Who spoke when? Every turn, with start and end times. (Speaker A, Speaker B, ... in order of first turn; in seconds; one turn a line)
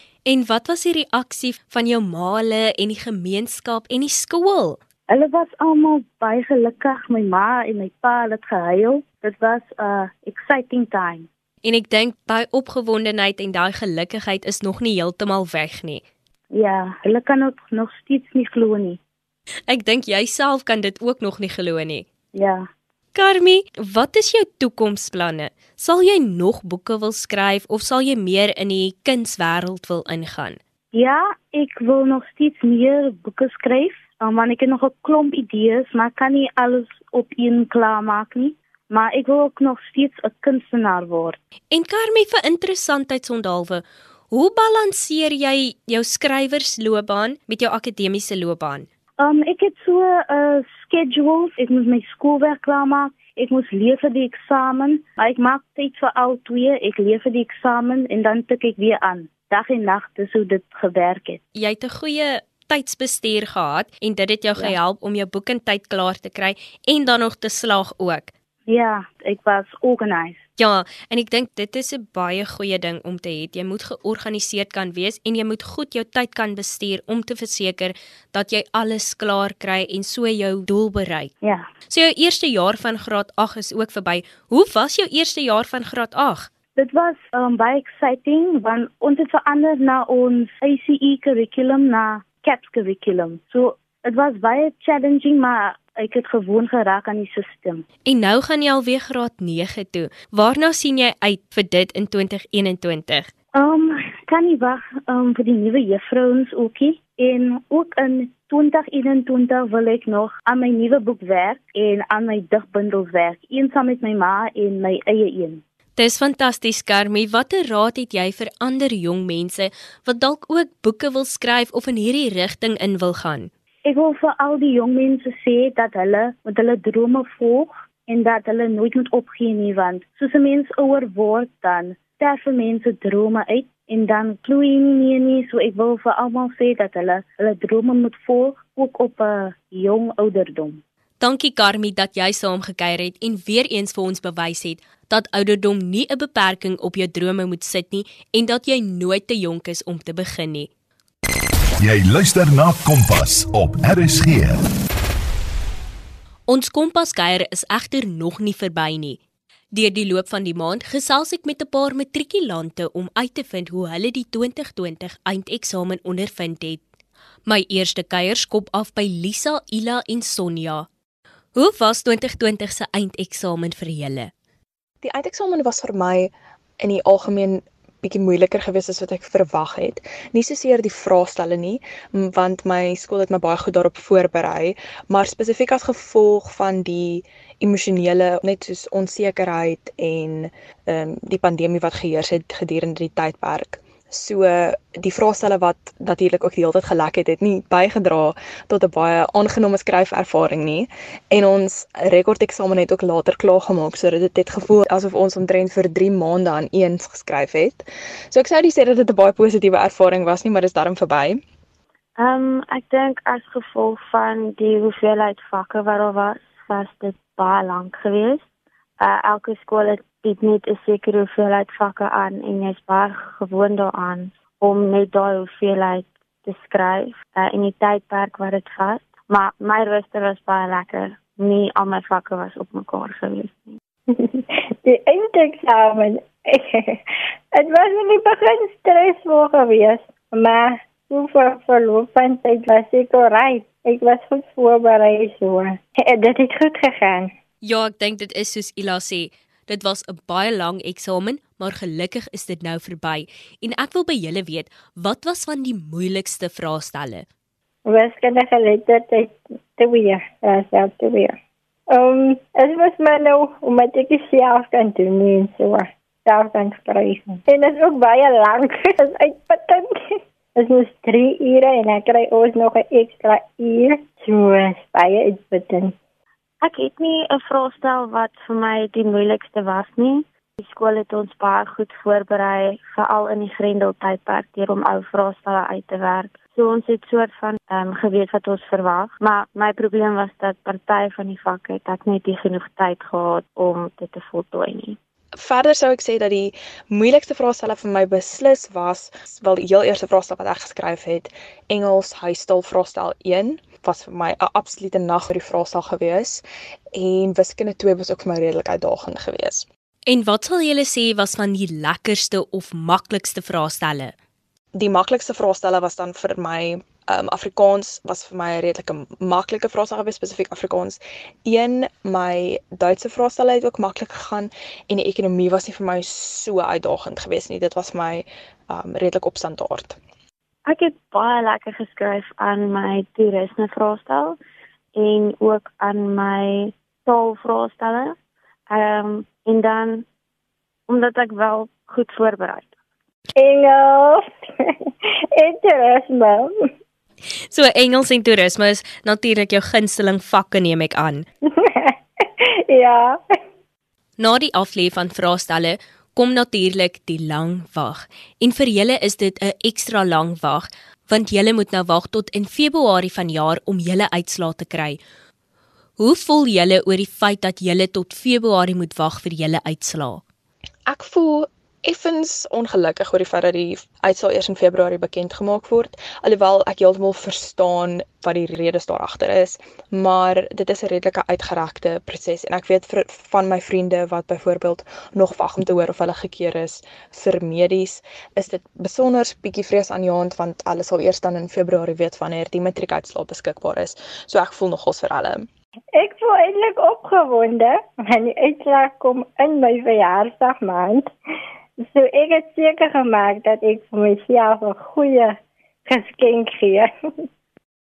Speaker A: 0.2-4.8
Speaker B: 5.1-11.3
Speaker A: 11.6-16.0
Speaker B: 16.5-19.0
Speaker A: 19.7-22.1
Speaker B: 22.3-22.6
Speaker A: 23.1-30.6
Speaker B: 30.9-41.4
Speaker A: 41.7-48.9
Speaker B: 49.2-61.4
Speaker A: 61.5-68.3
Speaker B: 68.7-70.4
Speaker A: 70.6-81.3
Speaker A: 81.9-86.5
Speaker B: 86.8-97.8
Speaker A: 98.0-103.3
Speaker B: 103.5-115.6
Speaker A: 116.0-123.5
Speaker B: 123.8-140.8
Speaker A: 141.2-150.7
Speaker C: 151.8-154.6
Speaker A: 156.5-159.2
Speaker A: 159.7-166.8
Speaker A: 167.5-170.9
Speaker A: 171.6-174.3
Speaker D: 175.0-211.4
Speaker E: 212.2-218.4
Speaker E: 219.0-233.8
Speaker F: 234.8-237.0
Speaker F: 237.5-247.3
Speaker A: 247.6-257.2
Speaker F: 257.9-261.3
Speaker F: 261.9-269.9
Speaker F: 270.6-275.9
Speaker E: 276.6-295.0
Speaker D: 295.4-309.6
Speaker A: 310.1-314.1
Speaker D: 314.7-330.0
Speaker E: 330.6-334.4
Speaker E: 334.9-338.1
Speaker E: 338.7-340.0
Speaker E: 340.9-342.7
Speaker F: 343.4-344.7
Speaker F: 345.4-346.5
Speaker A: 347.5-351.3
Speaker F: 351.7-351.9
Speaker F: 352.7-353.2
Speaker A: 354.2-365.0
Speaker A: 366.0-370.2
Speaker D: 370.9-395.5
Speaker F: 395.9-401.1
Speaker F: 401.9-406.9